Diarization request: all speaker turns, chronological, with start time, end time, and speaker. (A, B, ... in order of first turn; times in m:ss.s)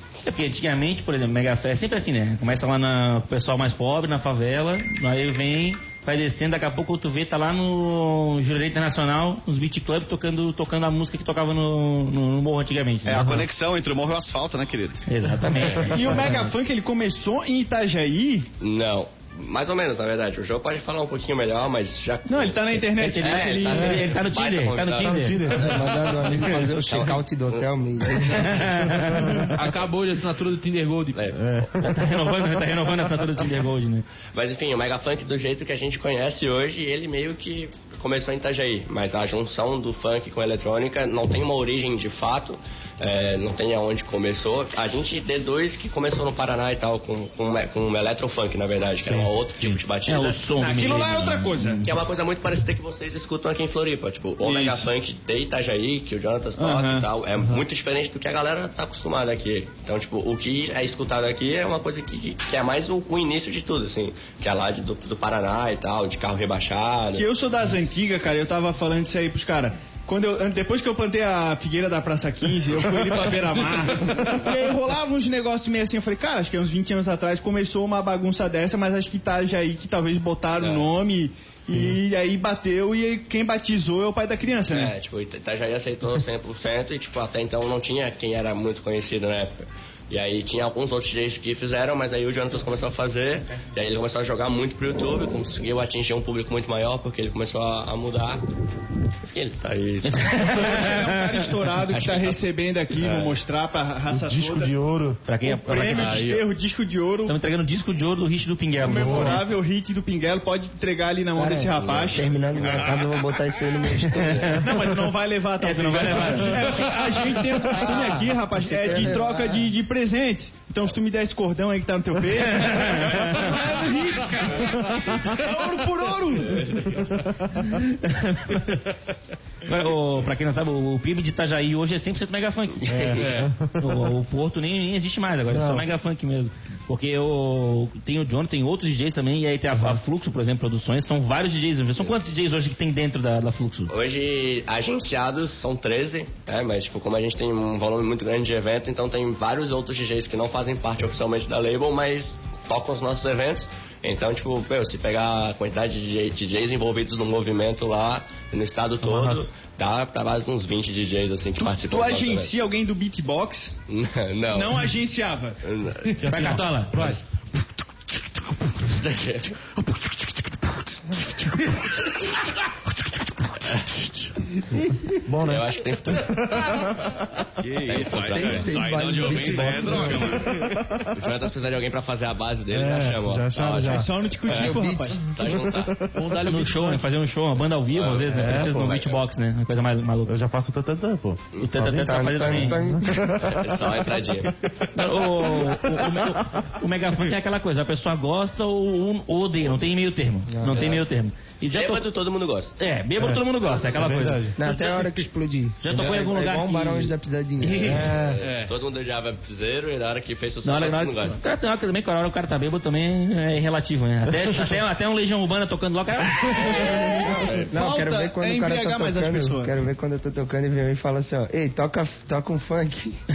0:00.2-0:13.4 A
0:13.0-0:15.0 B
0:15.1-0:16.5 A
0:15.8-0:18.5 C
0:18.6-0:26.0 D
0:22.3-0:23.9 C
0:22.9-0:25.4 A
0:24.9-0:25.9 E
0:25.5-0:28.7 F
0:26.4-0:27.1 A
0:27.5-0:28.3 D
0:28.2-0:29.5 A
0:28.7-0:29.5 E
0:29.5-0:31.2 G
0:31.1-0:31.6 D
0:31.3-0:32.0 E
0:31.8-0:34.0 A
0:34.3-0:50.5 D
0:49.6-0:52.0 A
0:50.5-0:51.8 C
0:51.8-1:07.3 D
0:54.4-0:54.9 C
0:56.6-0:57.1 C
1:07.1-1:24.9 C
1:20.6-1:20.9 D
1:21.7-1:22.0 E
1:24.7-1:38.4 D
1:39.3-1:40.6 D
1:40.1-1:41.1 A
1:40.4-1:44.8 C
1:41.9-1:42.4 D
1:42.9-1:43.4 D
1:44.1-1:45.2 E
1:45.2-1:46.3 A
1:45.4-1:47.4 C
1:45.9-1:46.4 G
1:47.2-1:49.4 A
1:48.8-1:52.3 C
1:48.8-1:49.5 E
1:51.4-1:54.6 F
1:54.0-1:54.7 A
1:54.6-2:06.9 C
1:55.6-1:56.6 A
1:57.8-1:59.7 F
2:02.5-2:03.6 A
2:07.6-2:08.8 A
2:09.6-2:13.2 A
2:12.9-2:13.9 E
2:13.2-2:13.5 G
2:13.8-2:23.9 A
2:15.5-2:15.8 E
2:23.9-2:42.5 D
2:39.0-2:39.5 E
2:41.6-2:43.7 C
2:43.9-2:44.9 D
2:44.5-2:45.6 C
2:45.6-2:47.2 D
2:46.1-2:47.2 E
2:46.3-2:47.0 A
2:48.8-2:49.7 D
2:55.2-2:57.0 E
2:55.4-2:56.8 D
2:57.6-3:00.7 B
2:57.9-2:58.7 D
2:58.1-3:00.4 F
2:59.4-3:01.1 E
3:01.1-3:06.1 D
3:02.7-3:04.1 E
3:03.8-3:05.3 C
3:04.5-3:05.2 F
3:05.4-3:06.1 E
3:06.1-3:07.1 G
3:06.4-3:10.3 A
3:07.9-3:09.2 D
3:08.2-3:09.1 E
3:10.2-3:13.9 E
3:11.6-3:12.8 A
3:11.8-3:13.3 F
3:13.2-3:14.5 D
3:14.9-3:22.0 A
3:15.5-3:16.4 E
3:20.5-3:21.0 F
3:20.7-3:21.0 D
3:21.7-3:22.7 D
3:22.8-3:24.5 A
3:23.2-3:24.6 E
3:24.6-3:28.4 F
3:25.8-3:28.2 A
3:27.9-3:31.4 D
3:28.4-3:28.7 G
3:30.6-3:37.4 A
3:37.2-3:43.2 F
3:37.4-3:37.7 D
3:37.7-3:39.7 C